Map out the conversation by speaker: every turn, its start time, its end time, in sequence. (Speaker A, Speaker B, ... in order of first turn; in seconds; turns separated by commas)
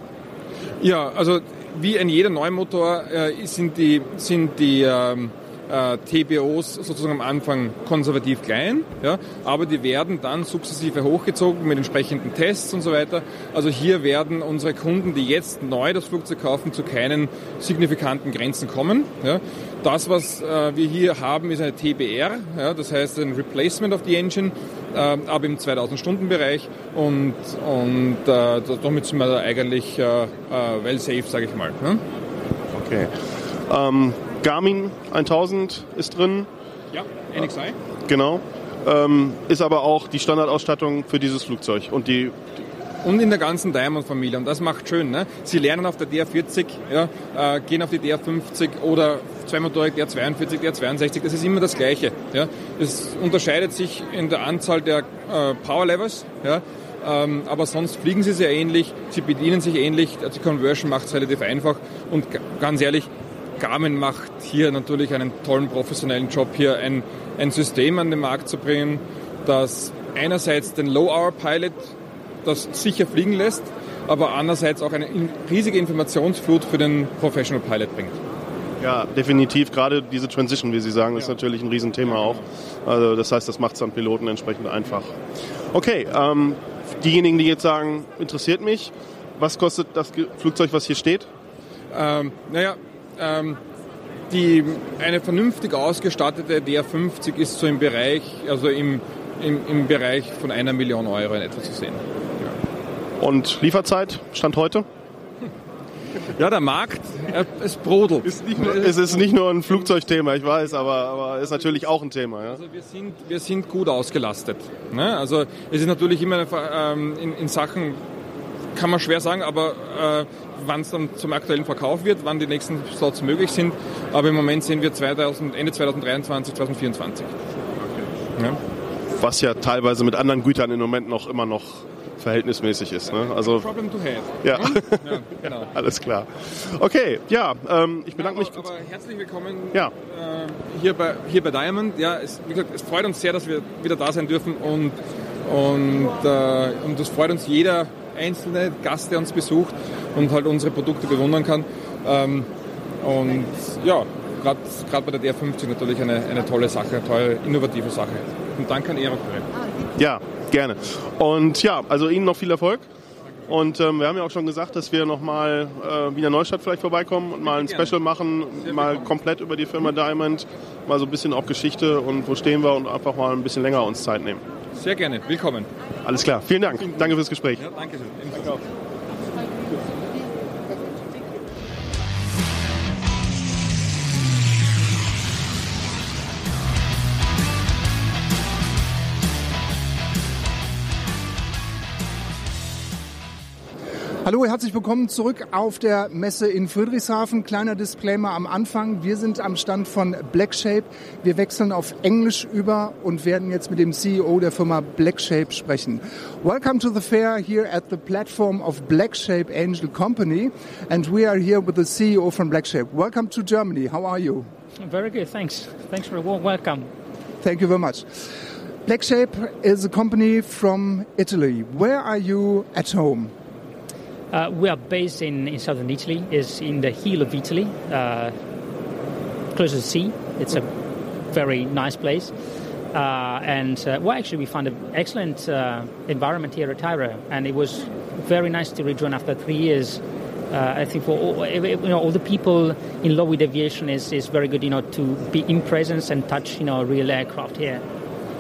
Speaker A: 0.8-32.0, Speaker B: 32.7-33.2, Speaker B: 33.7-36.5, Speaker A: 36.9-37.8, Speaker B: 38.1-42.4, Speaker A: 43.0-71.9, Speaker A: 72.5-78.2, Speaker B: 78.8-85.1, Speaker B: 85.7-91.3, Speaker A: 91.9-93.6, Speaker A: 94.3-102.0, Speaker B: 103.2-104.9, Speaker A: 106.3-109.0, Speaker B: 108.3-112.6, Speaker A: 112.5-118.0, Speaker A: 118.8-127.3, Speaker B: 129.1-133.7, Speaker A: 133.1-135.7, Speaker B: 134.4-138.7, Speaker A: 138.2-152.5, Speaker A: 153.0-159.5, Speaker B: 160.0-162.8, Speaker B: 163.5-174.4, Speaker A: 167.5-168.0, Speaker A: 168.6-169.1, Speaker A: 174.8-175.7, Speaker B: 176.1-177.6, Speaker A: 177.6-178.6, Speaker C: 194.2-214.5, Speaker D: 214.8-216.9, Speaker C: 217.4-223.3, Speaker D: 224.3-228.4, Speaker D: 229.5-230.7, Speaker D: 231.3-232.3, Speaker D: 232.9-247.8